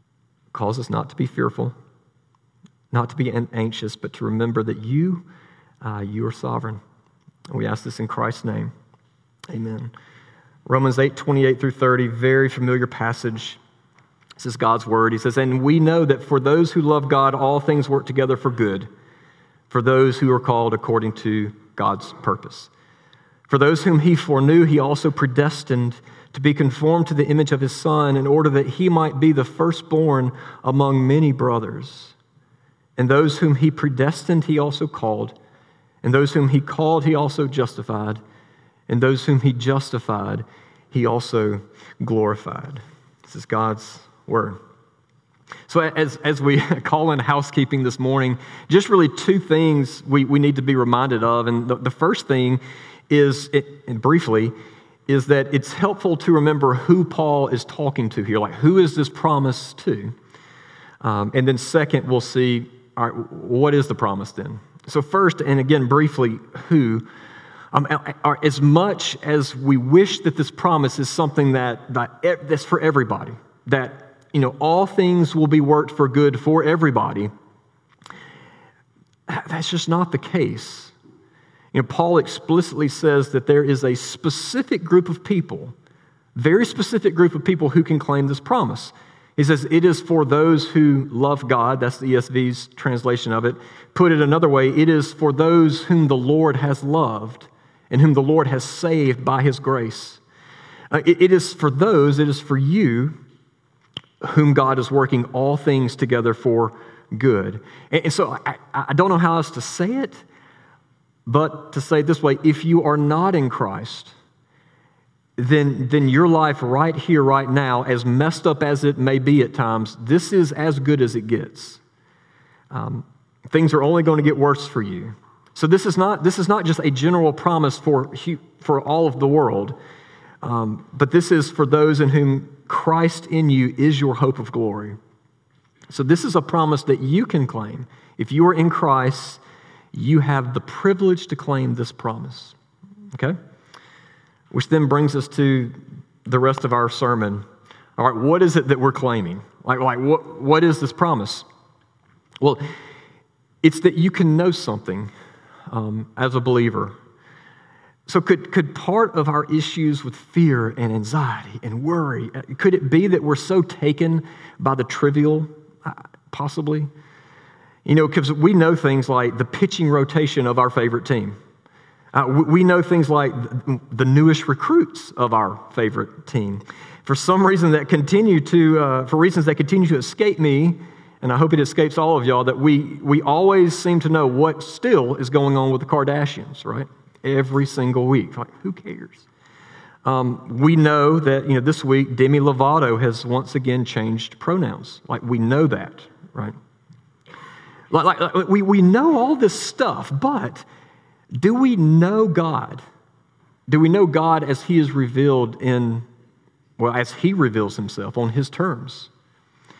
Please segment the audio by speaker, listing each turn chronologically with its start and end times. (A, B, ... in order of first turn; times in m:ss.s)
0:00.5-0:01.8 A
0:02.9-0:05.2 A
0:05.8-0:06.8 A
0:07.5-0:08.7 A
0:09.5-0:09.9 A
0:10.6-0:13.6 A
0:14.4-0:18.9 A
0:19.7-0:22.7 A
0:23.5-0:32.2 A
0:33.0-0:35.4 A
0:36.0-0:38.2 A
0:38.9-0:44.6 A
0:45.7-0:54.5 A
0:55.1-1:00.1 A
1:01.0-1:07.0 A
1:07.7-1:17.3 A
1:19.3-1:20.9 A
1:21.7-1:25.7 A
1:26.3-1:40.2 A
1:40.9-1:43.2 A
1:44.2-1:50.2 A
1:51.2-1:54.1 A
1:55.4-2:01.8 A
2:02.7-2:09.8 A
2:10.4-2:15.0 A
2:15.9-2:19.4 A
2:19.9-2:22.6 A
2:24.5-2:27.4 A
2:28.0-2:31.4 A
2:33.6-2:35.1 A
2:35.7-2:36.9 A
2:38.1-2:46.9 A
2:47.8-2:51.4 A
2:52.1-3:09.2 A
3:10.0-3:16.5 A
3:17.9-3:20.6 A
3:21.4-3:22.8 A
3:23.7-3:26.0 A
3:26.8-3:29.1 A